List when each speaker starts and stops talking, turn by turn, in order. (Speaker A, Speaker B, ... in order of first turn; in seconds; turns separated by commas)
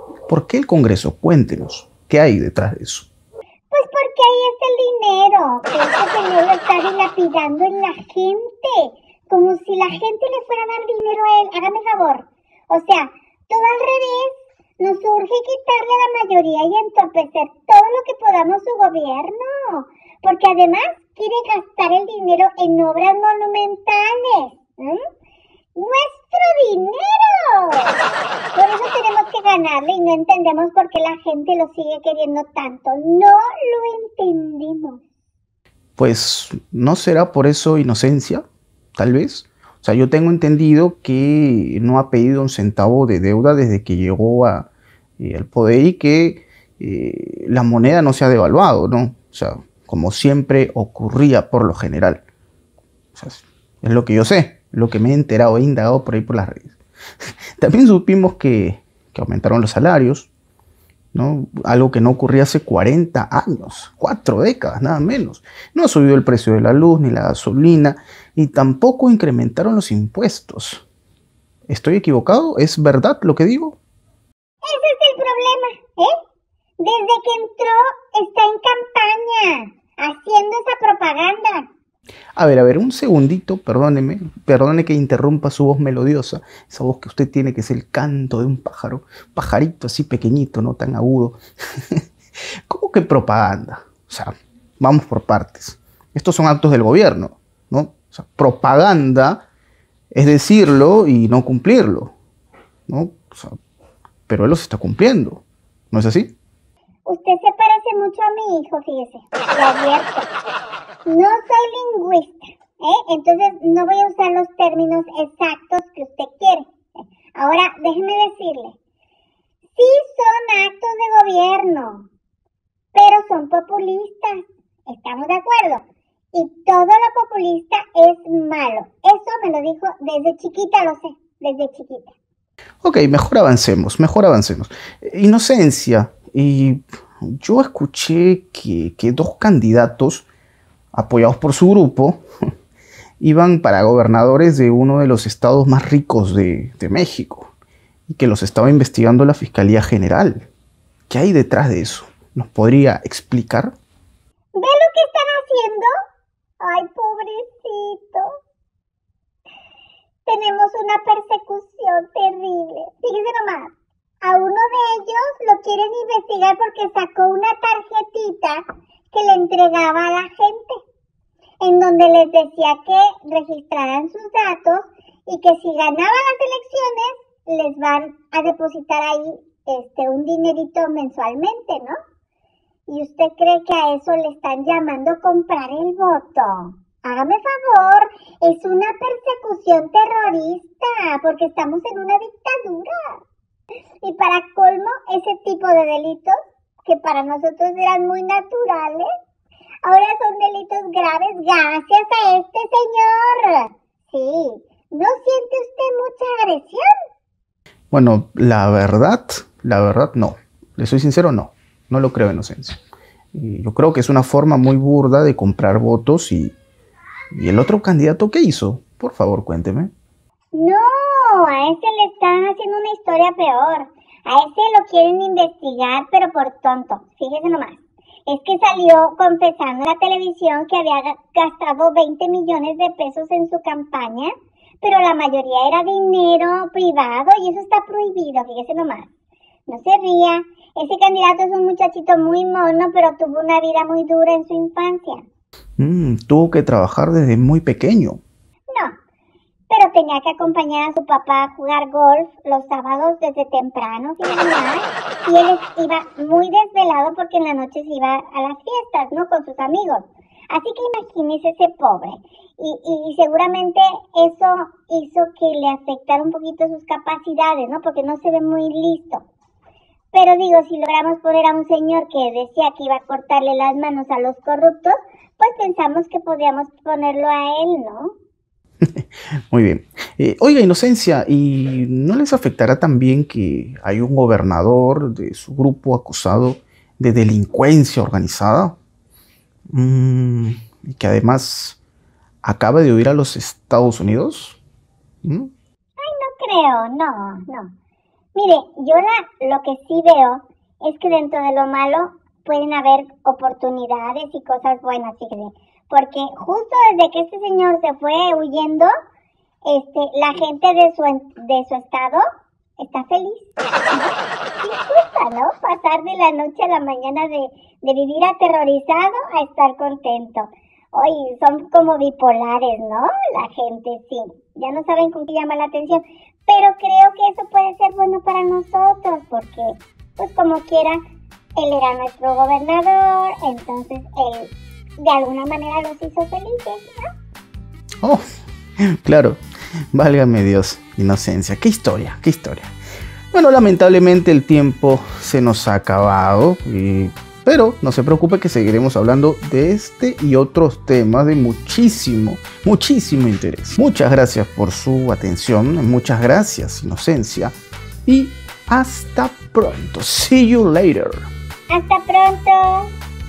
Speaker A: 0.3-3.1, Speaker B: 3.7-25.0, Speaker B: 25.8-28.0, Speaker B: 28.5-35.0, Speaker A: 36.0-38.4, Speaker A: 39.0-52.2, Speaker A: 53.1-56.8, Speaker A: 57.6-60.3, Speaker A: 61.1-70.8, Speaker A: 71.7-73.8, Speaker B: 74.6-76.1, Speaker B: 76.8-81.7, Speaker A: 82.4-92.0, Speaker A: 92.7-99.4, Speaker A: 100.1-102.1, Speaker A: 102.9-103.6, Speaker A: 104.3-106.3, Speaker B: 107.0-110.3, Speaker B: 111.0-118.8, Speaker B: 119.7-122.1, Speaker B: 122.9-125.8, Speaker B: 126.3-132.1, Speaker A: 132.8-140.3, Speaker A: 140.9-142.2, Speaker A: 143.2-147.5, Speaker A: 148.1-150.5, Speaker A: 151.1-153.7, Speaker B: 154.6-155.9, Speaker B: 156.6-158.2, Speaker B: 160.3-170.8, Speaker B: 171.6-181.9, Speaker B: 182.9-193.2, Speaker B: 194.0-199.1, Speaker B: 199.8-206.9, Speaker A: 207.9-212.8, Speaker A: 213.3-216.5, Speaker A: 217.3-219.9, Speaker B: 220.5-239.1, Speaker B: 239.7-245.2, Speaker A: 245.8-248.2, Speaker B: 248.7-249.0, Speaker B: 249.7-269.2, Speaker B: 270.1-278.1, Speaker A: 278.8-288.8, Speaker A: 289.7-291.8, Speaker A: 292.4-294.6, Speaker A: 295.2-295.5, Speaker B: 296.0-297.7, Speaker B: 298.3-308.9, Speaker B: 309.6-312.2, Speaker B: 312.8-331.0, Speaker B: 331.6-337.1, Speaker A: 338.8-339.4, Speaker A: 339.9-342.7, Speaker A: 343.3-357.5, Speaker A: 358.1-361.3, Speaker B: 361.7-362.9